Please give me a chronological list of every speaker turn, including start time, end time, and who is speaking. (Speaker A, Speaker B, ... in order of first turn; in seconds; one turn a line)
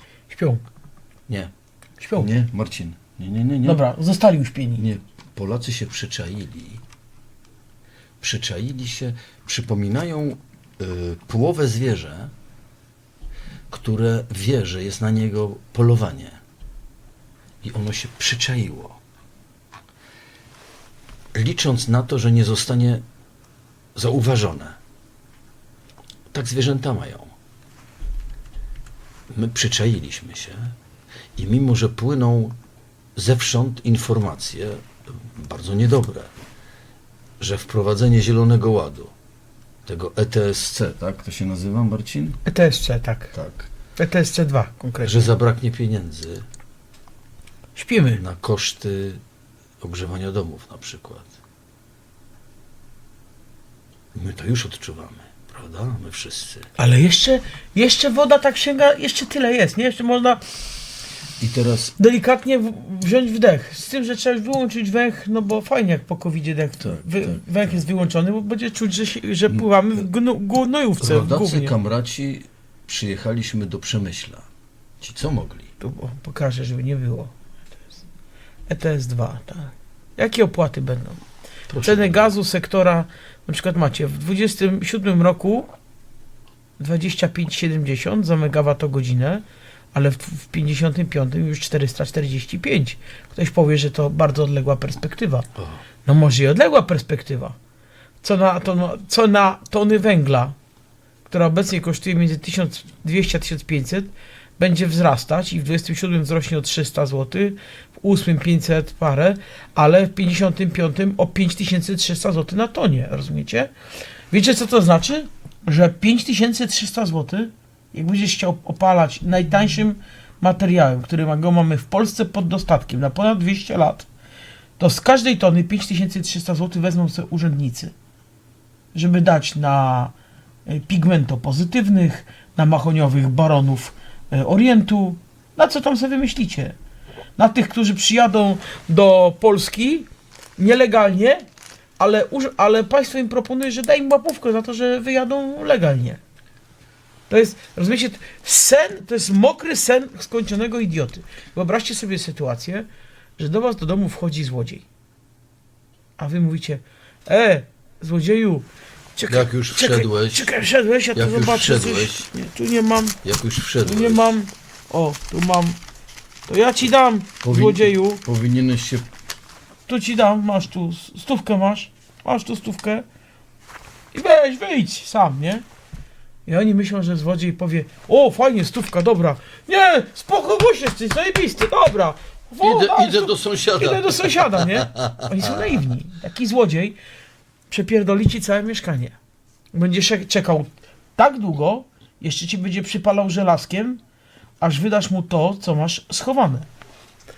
Speaker A: 0.3-0.6
Speaker A: 2.0-2.3
Speaker B: 2.1-3.8
Speaker A: 3.6-4.8
Speaker B: 4.8-6.8
Speaker B: 8.2-12.3
Speaker B: 13.7-16.4
Speaker B: 17.6-19.0
Speaker B: 21.3-23.0
Speaker B: 23.9-24.8
Speaker B: 26.3-27.3
Speaker B: 29.3-30.7
Speaker B: 31.4-32.5
Speaker B: 33.1-36.3
Speaker B: 37.4-39.1
Speaker B: 39.9-42.4
Speaker A: 42.5-43.3
Speaker B: 43.3-43.7
Speaker A: 44.0-45.3
Speaker B: 45.0-46.4
Speaker A: 47.8-48.2
Speaker B: 48.2-49.2
Speaker B: 49.8-51.3
Speaker B: 54.1-56.7
Speaker A: 56.8-60.4
Speaker B: 61.4-61.9
Speaker A: 62.0-71.7
Speaker B: 66.8-67.7
Speaker B: 71.0-74.5
Speaker B: 75.0-75.7
Speaker A: 75.8-77.3
Speaker A: 78.7-81.2
Speaker B: 81.7-82.3
Speaker A: 81.8-85.7
Speaker A: 86.8-95.5
Speaker A: 96.0-97.5
Speaker A: 98.2-100.5
Speaker A: 101.3-113.7
Speaker A: 114.3-124.1
Speaker A: 124.8-127.9
Speaker A: 128.9-130.1
Speaker A: 130.7-136.8
Speaker A: 137.4-141.4
Speaker A: 142.0-146.2
Speaker A: 147.3-152.8
Speaker A: 153.4-154.8
Speaker A: 156.2-163.2
Speaker B: 159.3-160.5
Speaker B: 161.1-162.3
Speaker B: 163.2-164.3
Speaker A: 163.8-165.8
Speaker A: 166.5-168.2
Speaker B: 167.4-169.1
Speaker A: 169.9-173.0
Speaker A: 174.1-175.6
Speaker A: 176.4-187.0
Speaker B: 182.6-185.5
Speaker A: 187.7-189.2
Speaker A: 189.7-194.0
Speaker A: 194.6-196.7